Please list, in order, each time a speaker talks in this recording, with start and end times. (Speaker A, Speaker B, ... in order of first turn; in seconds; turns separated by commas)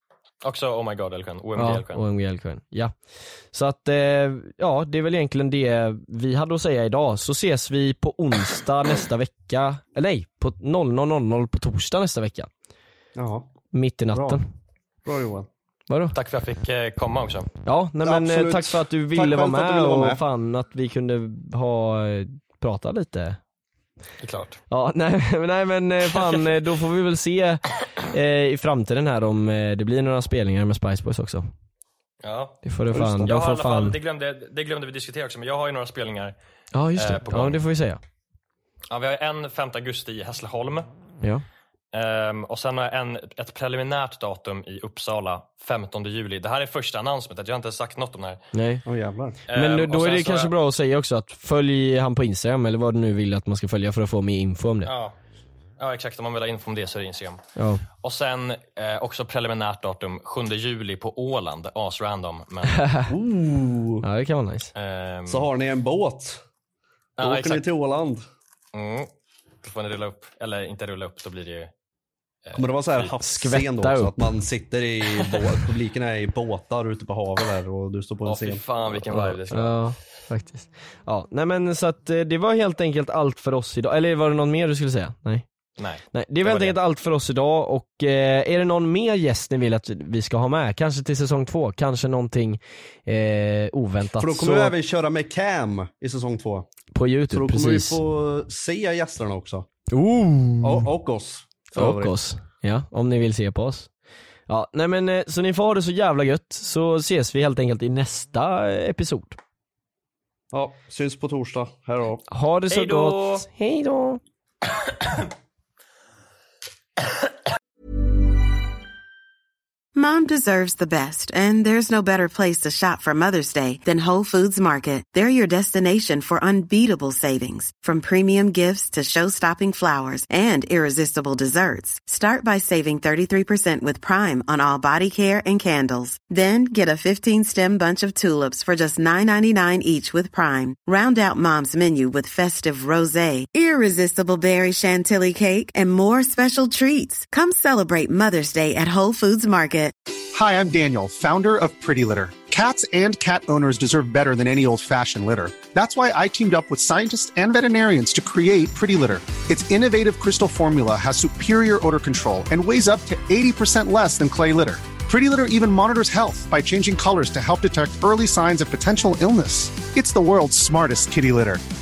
Speaker A: 0.4-2.0, Speaker B: 1.6-3.0, Speaker B: 3.5-12.5, Speaker C: 13.2-13.5, Speaker B: 13.7-14.4, Speaker C: 14.1-14.4, Speaker C: 15.0-15.5, Speaker B: 15.9-16.1, Speaker A: 16.1-17.5, Speaker B: 17.6-23.4, Speaker C: 18.0-20.2, Speaker A: 24.2-24.6, Speaker B: 24.7-31.5, Speaker A: 32.2-32.6, Speaker B: 32.6-34.0, Speaker C: 32.9-33.2, Speaker A: 33.1-36.3, Speaker B: 36.7-38.0, Speaker A: 37.0-37.6, Speaker A: 38.9-40.9, Speaker A: 41.9-48.4, Speaker B: 48.5-48.8, Speaker C: 48.9-49.4, Speaker A: 49.5-50.5, Speaker B: 49.5-54.9, Speaker A: 54.8-55.1, Speaker A: 55.8-57.4, Speaker B: 57.5-57.8, Speaker A: 58.0-62.8, Speaker B: 62.8-63.1, Speaker C: 63.1-64.0, Speaker B: 64.0-64.7, Speaker A: 64.7-65.5, Speaker C: 65.3-66.4, Speaker A: 67.2-67.6, Speaker C: 67.2-68.2, Speaker A: 68.7-69.1, Speaker A: 69.6-71.7, Speaker A: 72.5-73.1, Speaker C: 72.5-78.6, Speaker B: 73.2-74.4, Speaker A: 78.2-79.8, Speaker B: 78.9-85.5, Speaker A: 85.8-86.8, Speaker B: 86.1-94.7, Speaker C: 94.2-96.7, Speaker B: 96.9-98.0, Speaker C: 97.3-99.7, Speaker B: 99.9-100.9, Speaker C: 100.6-102.1, Speaker B: 101.7-103.9, Speaker B: 104.5-109.4, Speaker C: 110.5-112.2, Speaker B: 112.3-114.2, Speaker A: 112.7-113.4, Speaker D: 120.0-149.9, Speaker E: 150.3-171.6